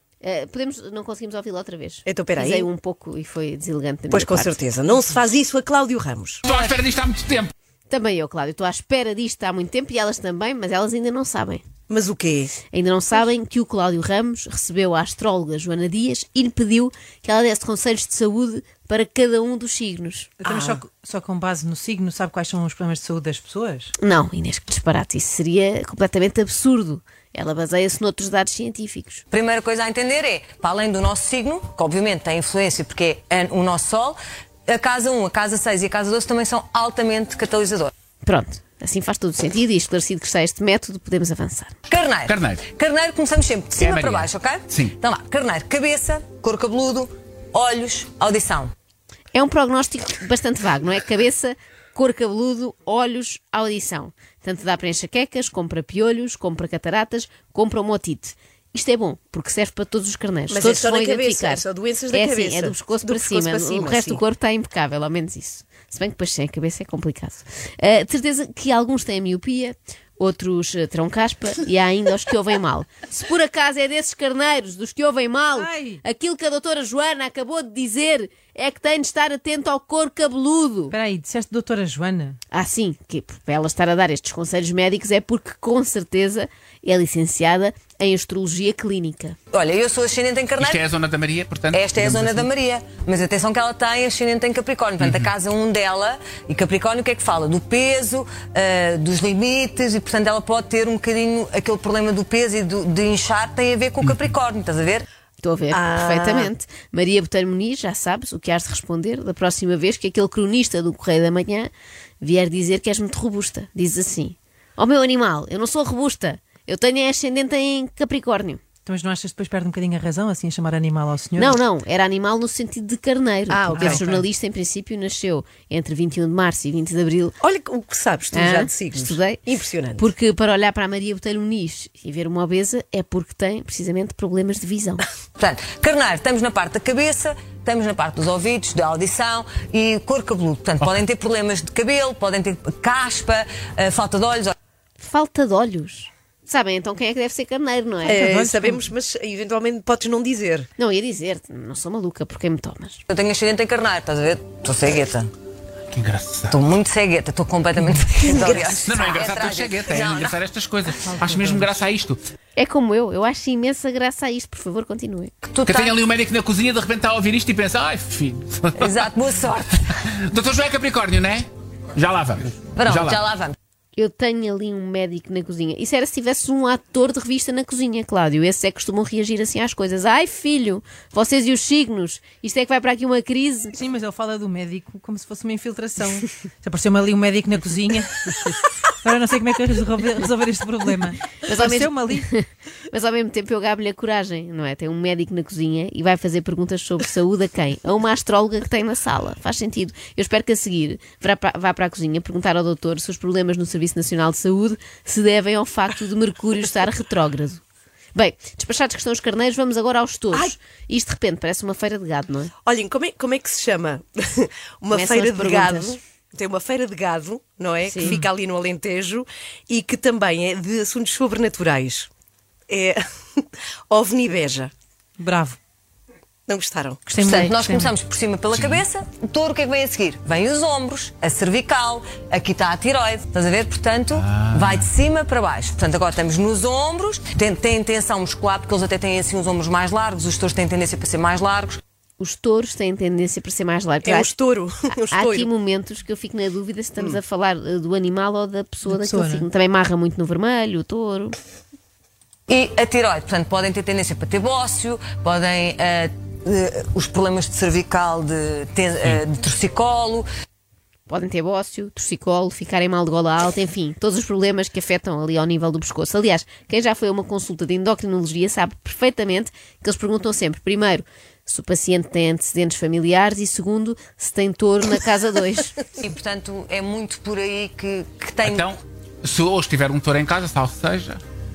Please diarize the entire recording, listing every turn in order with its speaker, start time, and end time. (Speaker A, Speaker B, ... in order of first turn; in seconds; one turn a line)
Speaker A: 0.2-4.5
Speaker B: 2.0-2.7
Speaker B: 4.1-6.4
Speaker C: 6.4-7.5
Speaker A: 7.9-11.6
Speaker B: 11.9-12.5
Speaker A: 12.7-20.3
Speaker D: 20.4-23.9
Speaker B: 20.4-20.8
Speaker A: 24.0-29.2
Speaker E: 29.3-37.9
Speaker A: 38.2-41.8
Speaker E: 41.9-48.7
Speaker C: 42.2-42.6
Speaker C: 43.8-45.0
Speaker A: 49.3-81.0
Speaker B: 60.5-64.2
Speaker D: 75.5-76.0
Speaker D: 80.9-82.4
Speaker A: 82.5-89.3
Speaker E: 89.5-90.8
Speaker C: 90.6-92.5
Speaker E: 91.7-105.0
Speaker C: 95.0-95.3
Speaker A: 105.4-111.7
Speaker B: 105.7-106.5
Speaker A: 112.2-118.6
Speaker D: 118.8-121.6
Speaker A: 121.4-127.3
Speaker B: 123.5-124.0
Speaker D: 123.8-124.2
Speaker B: 127.4-130.1
Speaker A: 128.3-129.4
Speaker A: 130.0-135.0
Speaker E: 135.4-144.5
Speaker A: 145.0-148.5
Speaker B: 148.0-150.7
Speaker D: 148.1-148.8
Speaker A: 150.8-153.0
Speaker E: 153.1-155.3
Speaker C: 155.9-156.6
Speaker E: 156.5-160.3
Speaker B: 158.2-158.9
Speaker C: 158.7-162.2
Speaker D: 161.0-161.7
Speaker A: 162.6-165.3
Speaker E: 165.4-166.0
Speaker C: 165.7-169.0
Speaker E: 168.8-169.8
Speaker C: 169.9-173.2
Speaker E: 172.8-173.5
Speaker A: 173.9-183.8
Speaker D: 183.8-192.3
Speaker A: 191.4-207.6
Speaker A: 208.1-212.5
Speaker B: 212.6-222.1
Speaker A: 214.9-216.0
Speaker A: 217.8-218.2
Speaker D: 218.0-218.2
Speaker B: 222.7-224.7
Speaker D: 225.2-225.6
Speaker B: 226.5-227.3
Speaker D: 227.1-227.9
Speaker E: 227.2-241.8
Speaker C: 228.5-228.8
Speaker C: 234.1-234.9
Speaker A: 242.2-244.3
Speaker B: 244.0-245.5
Speaker A: 245.1-251.3
Speaker D: 248.8-249.4
Speaker E: 252.5-260.3
Speaker A: 261.1-275.8
Speaker E: 276.0-278.7
Speaker C: 278.4-281.2